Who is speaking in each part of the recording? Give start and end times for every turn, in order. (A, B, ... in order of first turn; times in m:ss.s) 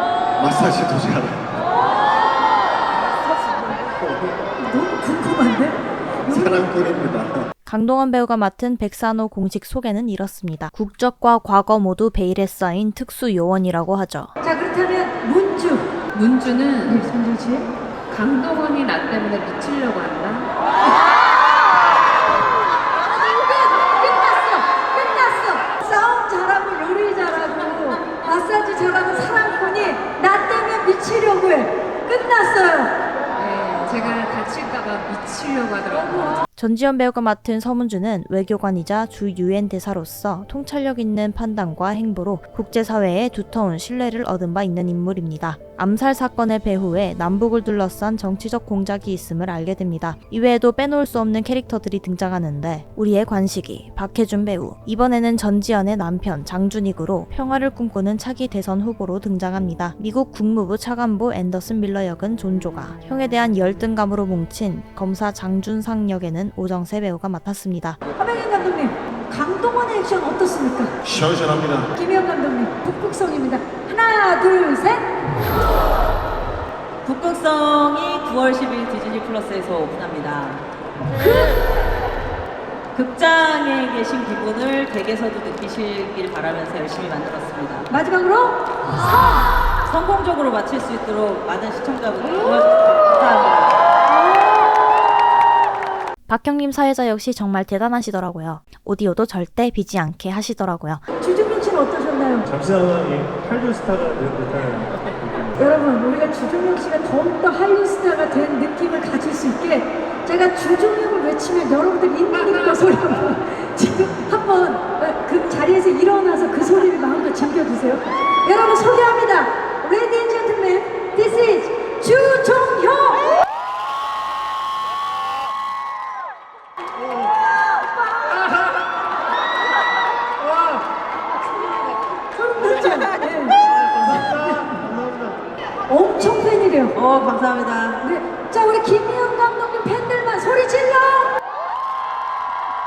0:00.4-0:01.3 A
0:04.6-0:06.7 B
0:06.3-0:07.3 A
0:07.7-0:14.3 C
0:14.4-0:15.9 B
0:16.1-0:17.1 D
0:16.8-0:17.7 B
0:18.1-0:20.5 D
0:23.0-0:33.0 B
0:33.3-0:36.4 D
0:36.6-1:08.0 C
1:08.2-1:11.0 B
1:11.9-1:15.1 B
1:17.0-1:20.7 E
1:22.9-1:27.9 E
1:27.9-1:29.4 B
1:29.9-1:33.8 E
1:36.3-1:41.0 C
1:41.2-1:42.5 B
1:42.5-1:45.8 F
1:45.6-2:03.3 B
2:11.7-2:14.8 B
2:15.9-2:17.0 B
2:16.9-2:18.0 E
2:18.0-2:21.3 B